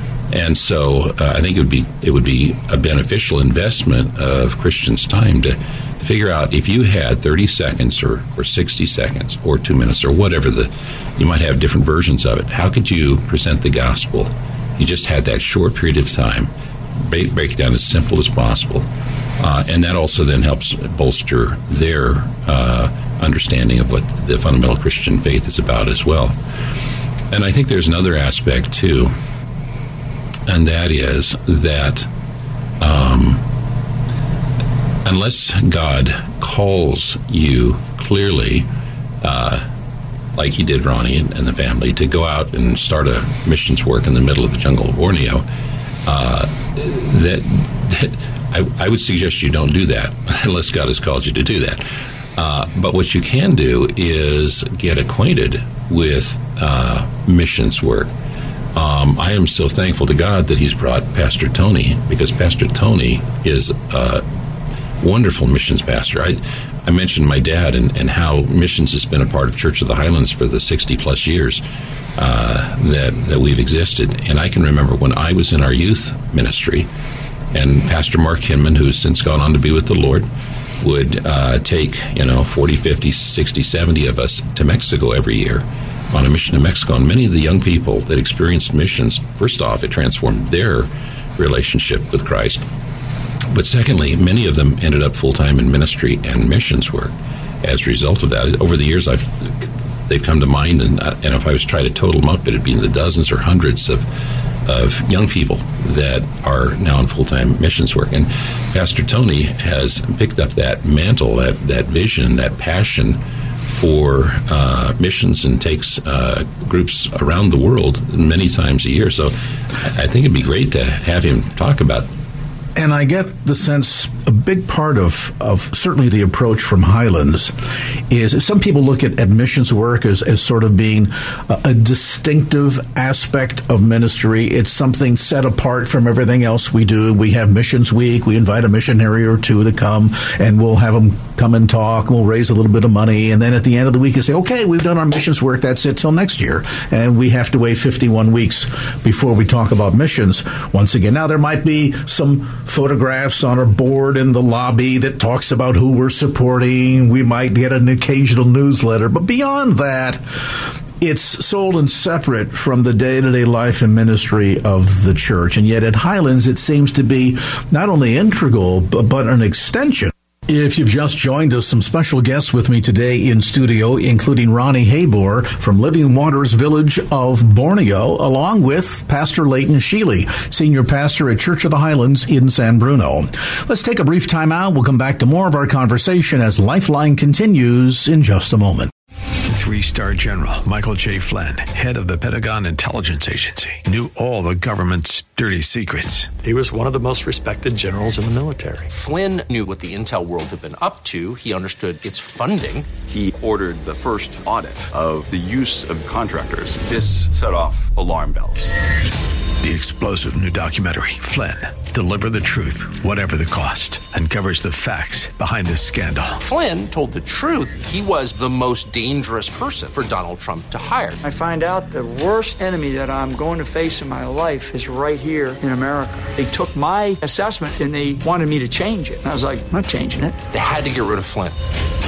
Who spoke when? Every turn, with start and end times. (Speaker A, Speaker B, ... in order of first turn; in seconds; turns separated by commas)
Speaker A: 0.3-18.9, Speaker A: 19.4-26.3, Speaker A: 27.3-29.1, Speaker A: 30.5-32.1, Speaker A: 32.8-33.4, Speaker A: 35.0-38.7, Speaker A: 39.2-39.6, Speaker A: 40.4-45.4, Speaker A: 46.0-58.1, Speaker A: 58.7-64.2, Speaker A: 65.0-71.6, Speaker A: 72.2-76.9, Speaker A: 77.5-80.3, Speaker A: 80.8-92.6, Speaker A: 93.5-104.0, Speaker A: 104.7-122.1, Speaker B: 122.8-127.5, Speaker B: 128.1-188.9, Speaker C: 189.5-196.3, Speaker D: 196.4-198.9, Speaker E: 198.9-202.9, Speaker F: 203.1-208.7, Speaker C: 209.6-216.4, Speaker E: 216.4-221.2, Speaker G: 221.2-230.4, Speaker E: 230.5-231.6